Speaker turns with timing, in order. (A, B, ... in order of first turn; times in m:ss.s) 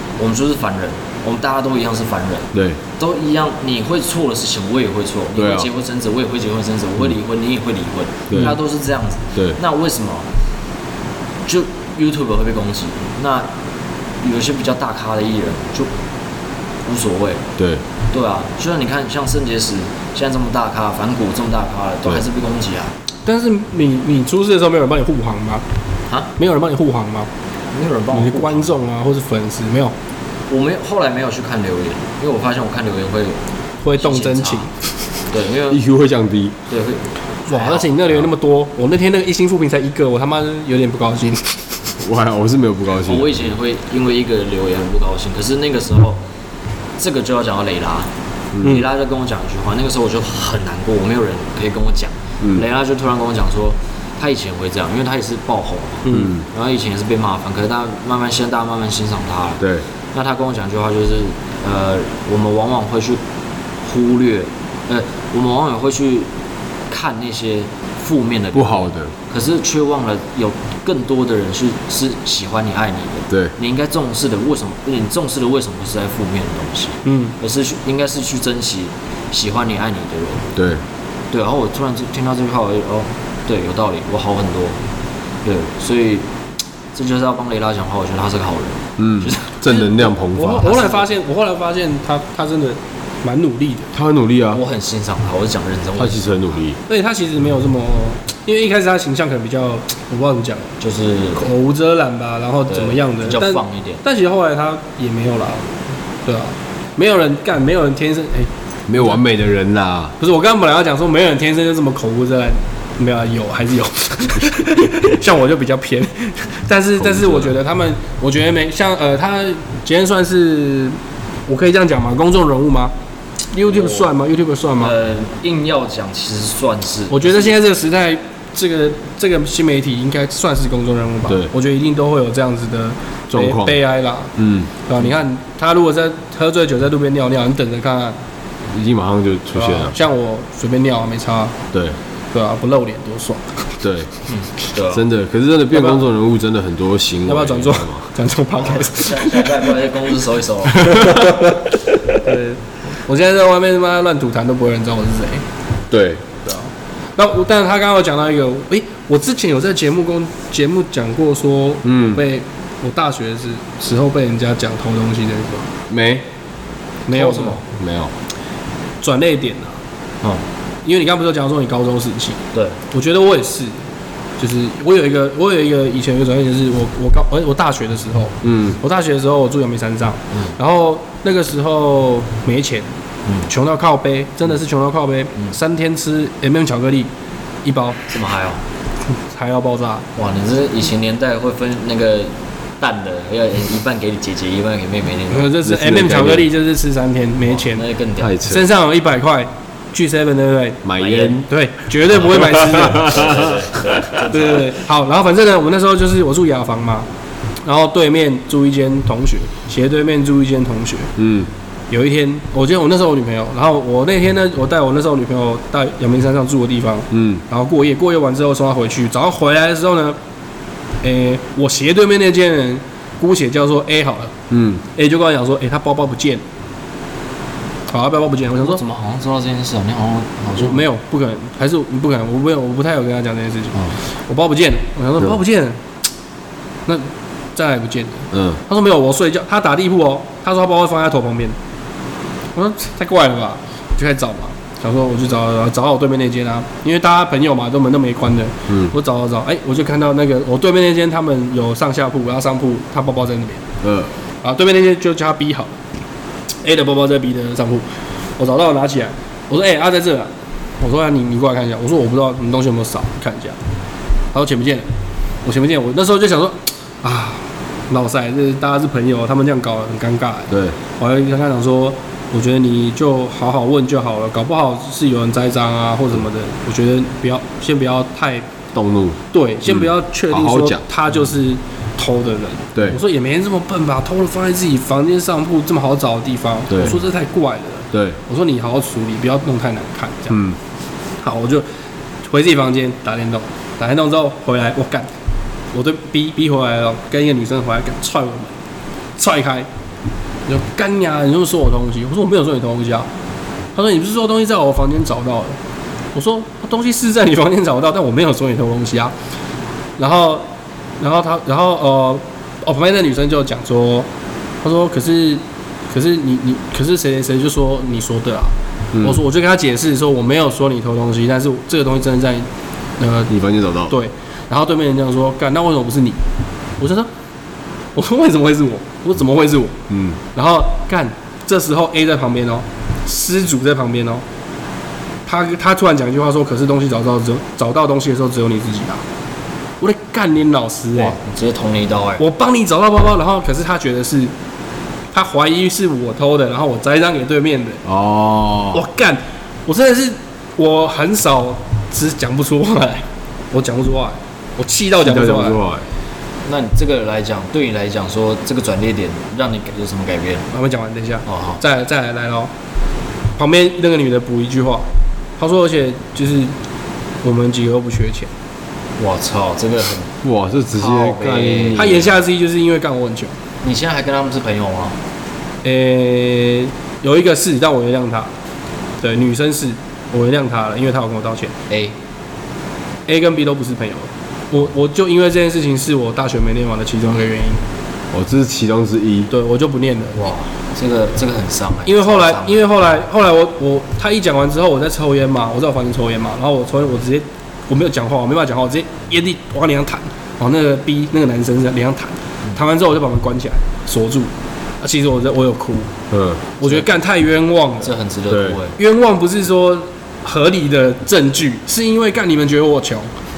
0:00.2-0:10.3 A
0:02.5-0:02.8 B
0:05.4-0:05.7 B
0:08.3-0:08.6 B
0:11.4-0:13.5 A
0:14.2-0:15.9 A
0:16.8-0:17.4 A
0:17.6-0:17.8 B
0:18.1-0:22.9 A
0:23.2-0:25.6 C
0:26.4-0:27.3 C
0:27.7-0:28.7 A
0:28.1-0:29.9 C
0:30.5-0:33.4 A
0:33.8-0:34.7 C
0:34.0-0:34.7 A
0:35.3-0:35.8 A
0:35.7-0:36.6 B
0:36.7-0:38.3 A
0:37.5-0:41.7 C
0:42.0-0:43.5 B
0:43.0-0:46.2 A
0:47.0-1:03.2 A
0:56.1-0:56.4 B
0:59.6-0:59.8 B
1:03.8-1:06.3 A
1:06.9-1:20.5 A
1:08.5-1:09.1 B
1:17.0-1:17.3 C
1:20.6-1:20.8 B
1:21.3-1:24.8 A
1:25.4-1:26.2 A
1:26.9-1:30.0 A
1:29.0-1:30.7 B
1:29.7-1:33.9 C
1:30.6-1:31.1 A
1:33.9-1:34.6 B
1:34.5-1:36.4 A
1:36.0-1:36.8 B
1:36.9-1:40.7 C
1:40.8-1:41.5 A
1:41.4-1:48.5 C
1:42.7-1:44.0 A
1:48.9-1:50.1 B
1:50.2-2:02.9 C
1:57.0-1:57.5 B
2:03.5-2:04.9 C
2:03.6-2:04.1 A
2:04.8-2:07.5 A
2:07.1-2:14.3 C
2:13.3-2:13.8 B
2:14.4-2:14.7 B
2:14.8-2:18.2 C
2:18.7-2:20.0 B
2:19.5-2:21.6 C
2:21.7-2:22.0 B
2:22.3-2:23.6 C
2:23.8-2:24.1 B
2:24.3-2:25.0 A
2:24.9-2:28.0 B
2:25.7-2:26.0 C
2:27.3-2:29.5 C
2:28.6-2:31.1 A
2:30.8-2:31.6 C
2:32.2-2:35.4 C
2:35.9-2:36.2 B
2:36.4-2:45.7 C
2:41.8-2:42.2 B
2:45.9-2:46.2 B
2:47.1-2:47.6 C
2:47.1-2:47.6 A
2:47.7-2:48.1 B
2:49.0-2:49.8 C
2:50.8-2:52.4 C
2:52.9-2:53.7 C
2:54.4-3:02.9 C
2:58.4-2:58.8 B
3:03.5-3:07.1 C
3:07.6-3:08.0 C
3:08.1-3:08.6 A
3:09.3-3:10.1 C
3:10.2-3:15.5 A
3:15.3-3:17.8 C
3:15.6-3:16.5 B
3:17.5-3:18.3 A
3:18.2-3:18.6 B
3:18.4-3:20.8 C
3:20.8-3:21.5 B
3:21.0-3:21.4 A
3:21.5-3:23.2 C
3:22.2-3:24.2 B
3:22.3-3:24.7 A
3:24.2-3:27.1 C
3:27.6-3:31.1 C
3:31.2-3:31.5 B
3:31.9-3:40.2 C
3:37.1-3:37.4 B
3:41.0-3:44.3 C
3:44.5-3:44.8 B
3:44.9-3:46.4 C
3:47.9-3:48.8 C
3:48.6-3:50.8 A
3:50.6-3:55.8 C
3:56.9-4:01.6 C
3:58.3-3:58.6 B
4:02.5-4:13.6 C
4:13.8-4:14.1 B
4:14.4-4:15.7 C
4:16.6-4:17.9 C
4:18.4-4:23.6 C
4:24.3-4:24.9 C
4:25.4-4:38.5 C
4:30.5-4:30.8 B
4:38.7-4:40.8 B
4:39.3-4:50.4 C
4:46.7-4:47.0 B
4:47.9-4:48.2 B
4:50.3-4:50.6 B
4:51.2-4:51.6 C
4:52.3-4:55.1 C
4:55.7-4:58.5 C
4:59.2-4:59.7 C
5:00.4-5:03.1 C
5:03.7-5:05.6 C
5:06.1-5:09.1 C
5:10.0-5:10.4 C
5:11.0-5:14.1 C
5:14.6-5:22.5 C
5:23.0-5:23.3 C
5:23.3-5:23.9 B
5:23.9-5:26.2 C
5:26.8-5:27.1 C
5:27.9-5:29.8 C
5:29.9-5:30.2 B
5:30.3-5:34.2 C
5:35.2-5:39.0 C
5:39.8-5:41.2 C
5:40.9-5:42.2 A
5:42.2-5:44.3 C
5:45.1-5:47.8 C
5:47.8-5:48.8 B
5:48.7-5:55.6 C
5:55.0-5:55.8 B
5:56.4-6:00.5 A
6:00.5-6:02.5 C
6:01.3-6:01.6 A
6:03.4-6:04.9 C
6:05.4-6:06.5 C
6:07.2-6:08.3 C
6:09.0-6:10.2 A
6:10.2-6:12.0 B
6:10.7-6:12.0 A
6:11.7-6:13.3 C
6:13.6-6:15.0 A
6:15.6-6:18.3 C
6:19.0-6:21.5 C
6:21.7-6:21.9 A
6:23.1-6:27.6 C
6:28.1-6:29.3 B
6:29.3-6:30.2 C
6:30.2-6:32.6 A
6:31.8-6:45.9 C
6:46.1-6:46.4 B
6:46.6-6:47.9 C
6:47.8-6:48.8 A
6:48.3-6:48.6 B
6:48.8-6:53.1 C